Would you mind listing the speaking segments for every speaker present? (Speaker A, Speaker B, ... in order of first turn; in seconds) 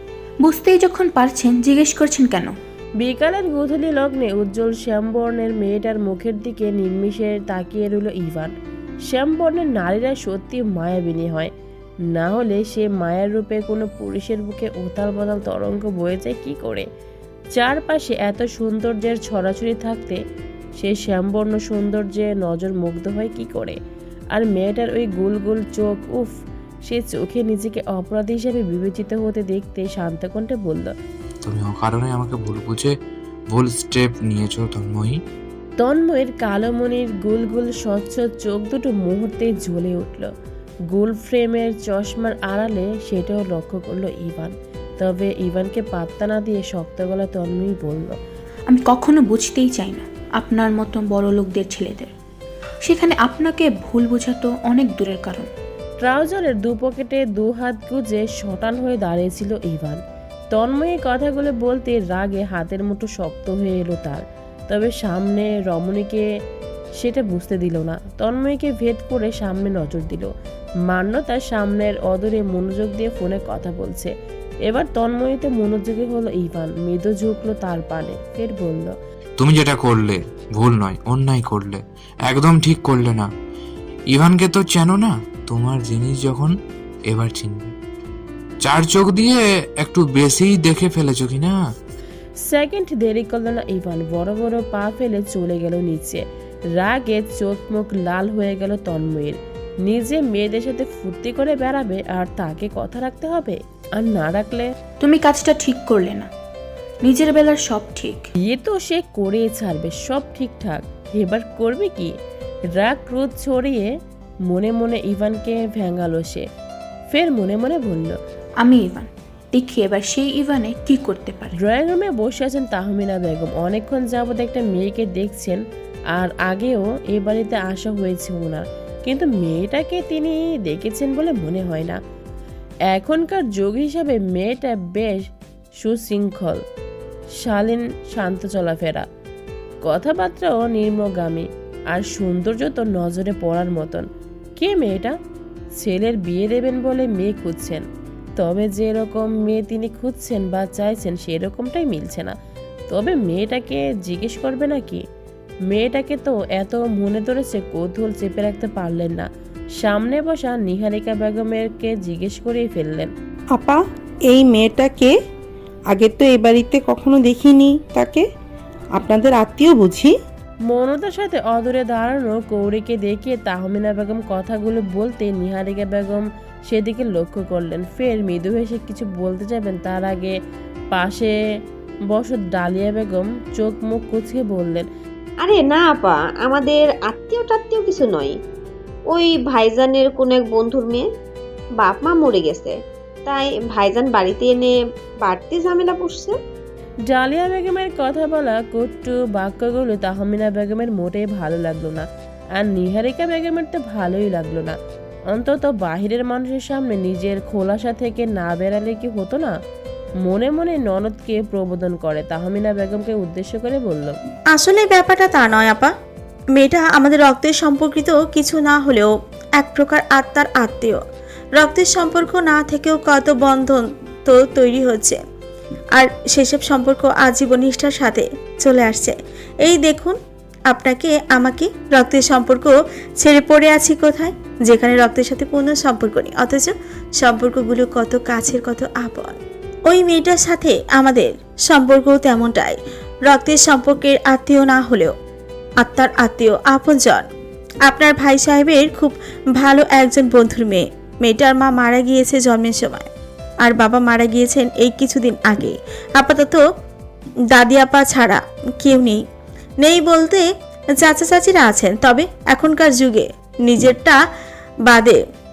Speaker A: 0.4-2.5, 48.7-52.1, 52.8-55.5, 105.0-106.3, 107.0-108.2, 118.6-121.6
Speaker B: 3.0-8.5, 9.1-11.5, 12.1-16.9, 17.5-20.2, 20.8-23.8, 24.3-26.3, 26.9-30.9, 35.8-40.3, 40.9-48.2, 56.0-60.0, 60.5-66.3, 67.0-70.3, 70.9-74.1, 74.7-79.0, 92.4-96.2, 96.8-104.7, 108.4-112.2, 112.7-113.9, 114.5-116.5, 117.1-118.2, 121.6-125.6, 126.1-132.0, 132.9-135.2, 135.8-136.6, 137.4-139.1, 139.8-144.1, 144.6-145.2, 145.8-147.8, 148.4-152.3, 152.9-155.0, 155.7-159.3, 159.8-163.1, 170.7-180.3, 180.9-181.3, 182.1-184.9, 197.1-204.8, 205.3-209.5, 210.2-214.2
Speaker C: 31.4-32.9, 33.5-35.2, 79.4-83.3, 84.1-86.5, 87.1-87.7, 88.6-91.5
Speaker D: 163.6-165.2, 165.9-168.2, 169.0-170.1
Speaker E: 185.4-188.4, 189.1-191.1, 191.8-196.4
Speaker F: 214.5-215.9, 216.6-221.0, 221.6-225.2, 225.9-230.2, 230.7-239.4, 239.9-245.1, 245.8-247.2, 247.8-253.1, 253.6-256.6, 257.5-259.2, 259.8-264.2, 264.9-265.2